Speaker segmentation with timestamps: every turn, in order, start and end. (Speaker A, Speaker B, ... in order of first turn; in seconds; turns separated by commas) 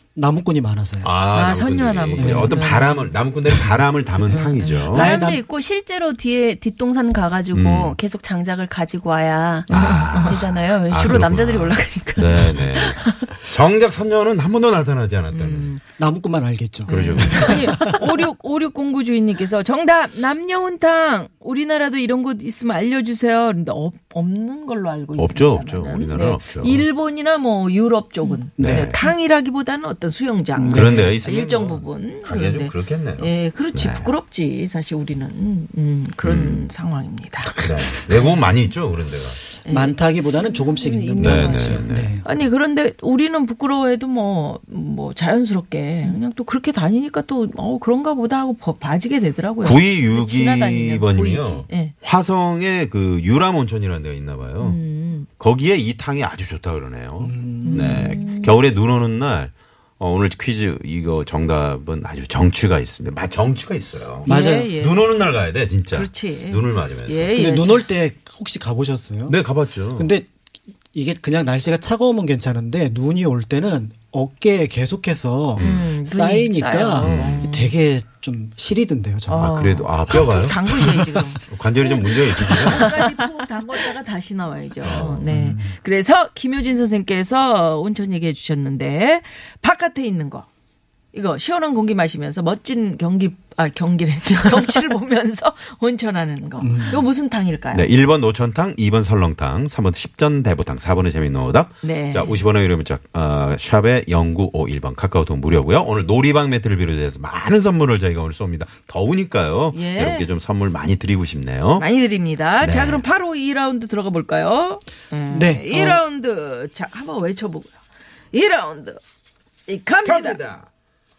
Speaker A: 0.1-1.1, Speaker B: 1.0-5.1, Speaker C: 1.3-3.1, Speaker A: 2.2-2.6, Speaker A: 4.3-5.4, Speaker C: 4.3-5.1, Speaker D: 4.9-13.4, Speaker B: 7.5-8.0, Speaker B: 9.7-15.7, Speaker C: 9.7-10.4, Speaker C: 15.3-15.8, Speaker A: 16.0-18.0, Speaker C: 16.9-38.6, Speaker B: 16.9-17.4, Speaker D: 17.7-18.0, Speaker B: 25.1-26.9, Speaker B: 28.6-29.0, Speaker A: 30.6-31.1, Speaker B: 30.7-34.1, Speaker B: 36.2-36.6, Speaker B: 37.5-39.4, Speaker C: 39.6-40.0, Speaker A: 39.7-42.2, Speaker D: 40.4-41.9, Speaker B: 41.2-42.1, Speaker C: 42.2-52.0, Speaker B: 49.6-54.8, Speaker C: 54.6-55.3, Speaker B: 55.4-67.3, Speaker A: 57.2-58.2, Speaker C: 57.6-58.6, Speaker A: 64.2-64.7, Speaker C: 64.2-65.1, Speaker C: 65.9-67.9, Speaker A: 67.3-69.4, Speaker B: 69.3-70.1, Speaker A: 69.9-70.3, Speaker A: 70.9-79.5, Speaker B: 75.6-75.9, Speaker C: 75.6-77.8, Speaker B: 77.0-77.5, Speaker C: 79.3-90.5, Speaker B: 79.4-80.8, Speaker B: 81.5-83.0, Speaker B: 84.8-85.3, Speaker A: 84.8-85.8, Speaker C: 91.1-97.9, Speaker A: 96.6-97.0, Speaker B: 97.7-111.9, Speaker C: 101.8-102.4, Speaker C: 109.7-110.3, Speaker C: 111.8-117.7, Speaker B: 112.6-113.0, Speaker A: 115.3-116.0, Speaker C: 118.3-119.0, Speaker C: 119.7-120.4, Speaker B: 120.0-120.7